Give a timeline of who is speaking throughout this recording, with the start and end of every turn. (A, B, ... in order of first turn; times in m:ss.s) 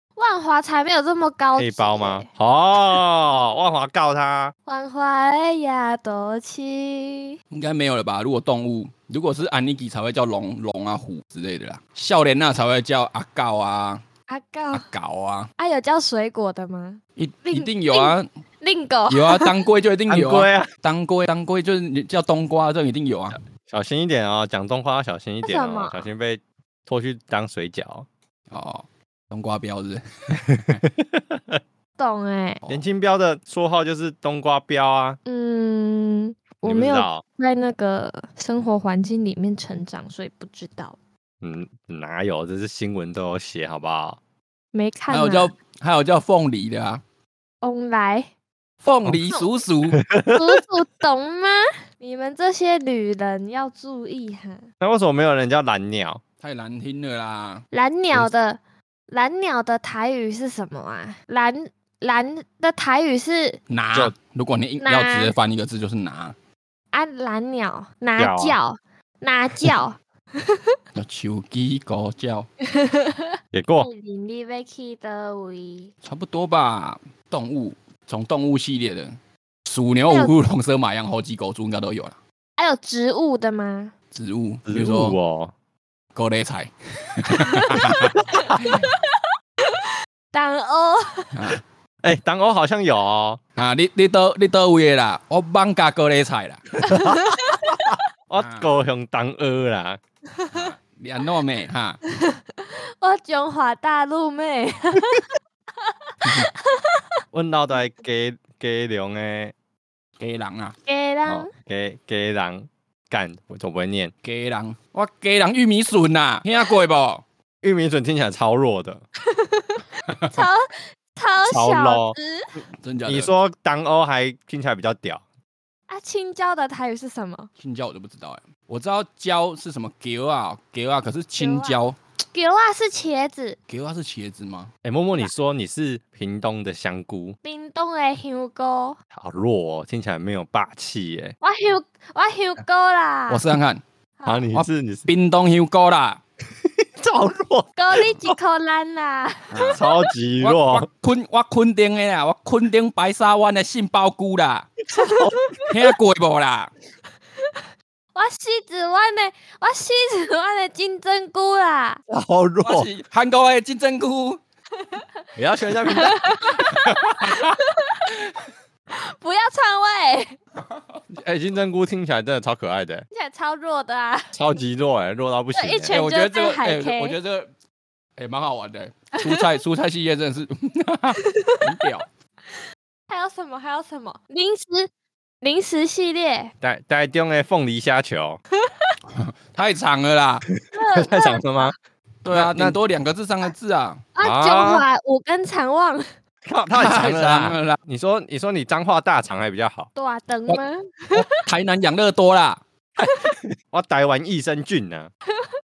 0:00.2-0:02.3 A
0:01.6-0:04.5 B
0:04.7-0:07.4 A
0:07.5-0:14.0 C
0:14.3-0:14.9 A
0:14.7-0:15.5 C
0:15.6-0:19.5 A
0:17.2-0:18.3 C
0:19.1-0:23.4 C
0:20.1-0:20.7 B
0:23.7-0:28.1 B
0:25.4-0:26.1 A
0:28.5-0:30.9 C
0:30.4-0:31.6 B
0:32.0-0:32.6 A
0:32.7-0:35.2 B
0:35.3-0:41.0 A
0:36.6-0:37.2 B
0:41.4-0:44.2 B
0:44.7-0:45.5 A
0:45.1-0:47.0 C
0:47.6-0:48.3 A
0:48.8-0:50.0 C
0:49.9-0:50.6 B
0:50.3-0:54.7 A
0:54.8-0:56.2 B
0:56.4-0:57.6 C
0:57.7-1:03.6 A
1:03.7-1:06.4 C
1:04.8-1:05.3 A
1:06.9-1:10.8 A
1:08.2-1:08.6 B
1:11.0-1:12.5 C
1:12.7-1:15.9 A
1:13.5-1:13.9 B
1:16.0-1:19.2 C
1:19.7-1:22.2 C
1:22.6-1:23.9 A
1:24.1-1:25.2 C
1:24.7-1:25.5 B
1:26.2-1:28.9 C
1:27.4-1:31.4 A
1:28.2-1:28.5 B
1:31.3-1:31.6 C
1:32.0-1:33.4 B
1:33.6-1:36.6 C
1:36.8-1:38.0 A
1:36.8-1:40.0 B
1:38.4-1:38.7 C
1:40.5-1:42.0 C
1:42.1-1:45.3 A
1:45.8-1:47.0 A
1:47.3-1:49.5 B
1:50.2-1:50.8 C
1:50.9-1:51.5 A
1:51.3-1:54.1 B
1:54.2-1:57.2 C
1:57.6-1:59.0 B
1:59.2-2:02.5 A
2:00.1-2:00.4 C
2:01.4-2:02.2 B
2:02.8-2:03.3 C
2:03.1-2:05.2 B
2:05.9-2:07.5 A
2:07.6-2:12.0 C
2:11.4-2:13.6 A
2:13.7-2:14.7 C
2:14.8-2:17.4 B
2:17.4-2:19.0 A
2:19.2-2:21.4 B
2:21.4-2:23.4 A
2:23.3-2:23.8 C
2:24.2-2:24.5 A
2:24.3-2:25.1 B
2:24.5-2:26.2 C
2:26.6-2:28.4 B
2:27.8-2:30.1 A
2:29.5-2:29.8 C
2:29.7-2:30.9 B
2:30.4-2:34.7 C
2:34.9-2:35.6 B
2:34.9-2:35.7 A
2:35.7-2:36.7 C
2:38.2-2:42.0 A
2:42.1-2:42.9 B
2:42.6-2:44.4 C
2:45.4-2:46.4 B
2:45.9-2:48.1 A
2:46.6-2:47.6 C
2:48.9-2:50.4 A
2:51.1-2:53.1 B
2:53.1-2:54.3 A
2:54.3-2:55.9 B
2:55.5-2:57.2 A
2:55.9-2:57.5 C
2:58.2-3:02.1 C
3:01.2-3:01.6 A
3:03.1-3:04.9 A
3:05.4-3:06.5 A
3:06.6-3:08.4 B
3:08.7-3:09.0 A
3:09.2-3:10.5 C
3:10.6-3:11.8 B
3:10.7-3:11.7 A
3:12.2-3:14.1 C
3:12.3-3:12.8 B
3:14.2-3:16.1 A
3:14.2-3:14.8 B
3:16.4-3:19.9 B
3:16.7-3:17.8 C
3:20.0-3:21.4 A
3:21.1-3:22.6 C
3:23.7-3:25.1 B